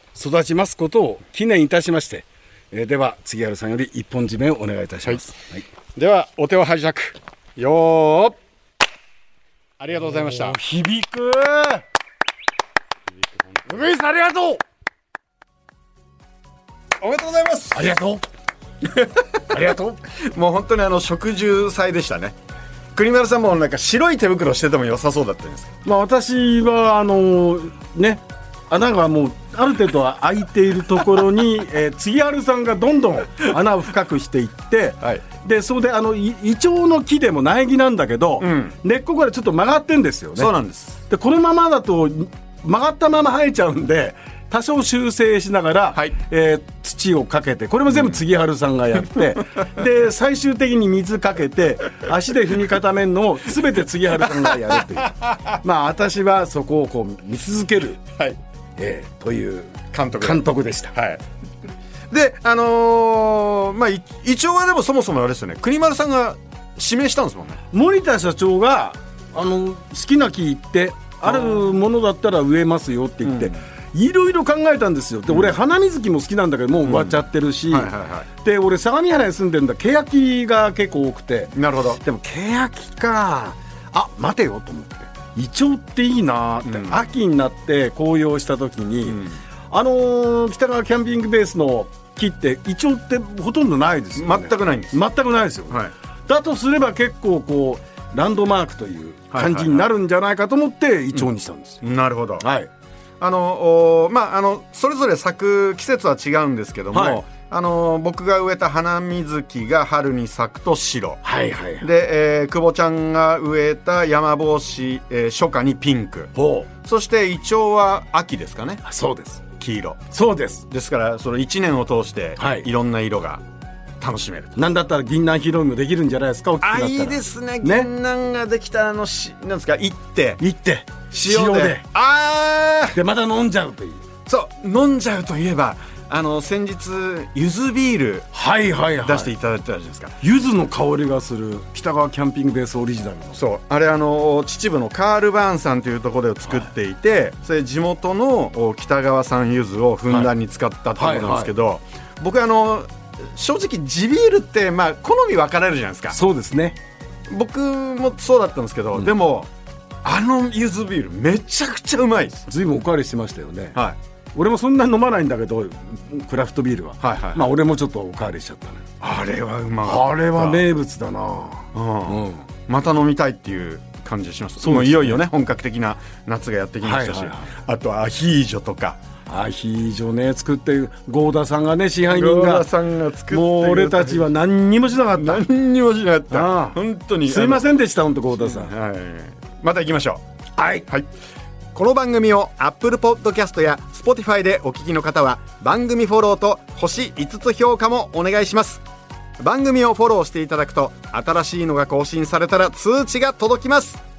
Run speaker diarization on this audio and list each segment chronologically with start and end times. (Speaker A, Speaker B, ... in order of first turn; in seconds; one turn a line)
Speaker A: 0.1-5.6
Speaker B: 6.0-8.4
Speaker B: 9.8-10.6
Speaker A: 9.9-11.8
Speaker B: 13.1-13.9
Speaker A: 13.7-14.6
Speaker B: 17.0-17.9
Speaker A: 17.7-18.2
Speaker B: 18.9-22.4
Speaker A: 19.5-20.0
Speaker B: 22.9-25.7
Speaker A: 25.8-40.5
Speaker B: 38.4-38.7
Speaker B: 40.4-41.0
Speaker A: 41.1-58.0
Speaker B: 47.9-48.2
Speaker B: 54.1-55.5
Speaker A: 58.8-60.9
Speaker B: 59.9-61.2
Speaker B: 62.1-67.6
Speaker A: 67.7-101.8
Speaker B: 71.2-71.7
Speaker B: 73.2-73.6
Speaker B: 75.3-75.5
Speaker B: 76.8-78.3
Speaker B: 81.5-82.0
Speaker B: 86.6-87.0
Speaker B: 89.0-89.4
Speaker B: 94.1-95.0
Speaker B: 99.3-99.9
Speaker B: 101.8-102.5
Speaker A: 102.4-102.7
Speaker B: 103.2-111.2
Speaker A: 106.9-107.2
Speaker A: 111.2-111.9
Speaker B: 111.8-116.3
Speaker A: 116.3-116.7
Speaker B: 116.8-118.8
Speaker A: 118.8-119.4
Speaker B: 119.6-120.0
Speaker A: 120.1-120.7
Speaker B: 120.7-123.4
Speaker A: 122.4-122.7
Speaker B: 124.0-124.6
Speaker A: 124.5-127.9
Speaker B: 126.6-130.4
Speaker A: 130.4-131.8
Speaker B: 131.1-133.0
Speaker A: 132.9-134.0
Speaker B: 134.2-138.3
Speaker A: 138.3-139.3
Speaker B: 139.0-140.2
Speaker A: 140.2-143.4
Speaker B: 143.3-156.2
Speaker A: 150.9-151.5
Speaker A: 156.1-156.8
Speaker B: 157.3-159.5
Speaker B: 160.0-162.5
Speaker A: 162.5-163.8
Speaker A: 164.3-169.1
Speaker B: 167.0-167.5
Speaker B: 169.0-170.7
Speaker A: 169.8-172.4
Speaker B: 171.7-179.0
Speaker A: 174.6-175.2
Speaker A: 176.8-177.5
Speaker A: 179.2-182.7
Speaker B: 182.1-184.3
Speaker A: 183.3-185.4
Speaker B: 185.1-187.7
Speaker A: 186.3-188.7
Speaker B: 188.3-190.2
Speaker A: 190.6-190.9
Speaker B: 191.7-198.8
Speaker B: 199.4-204.0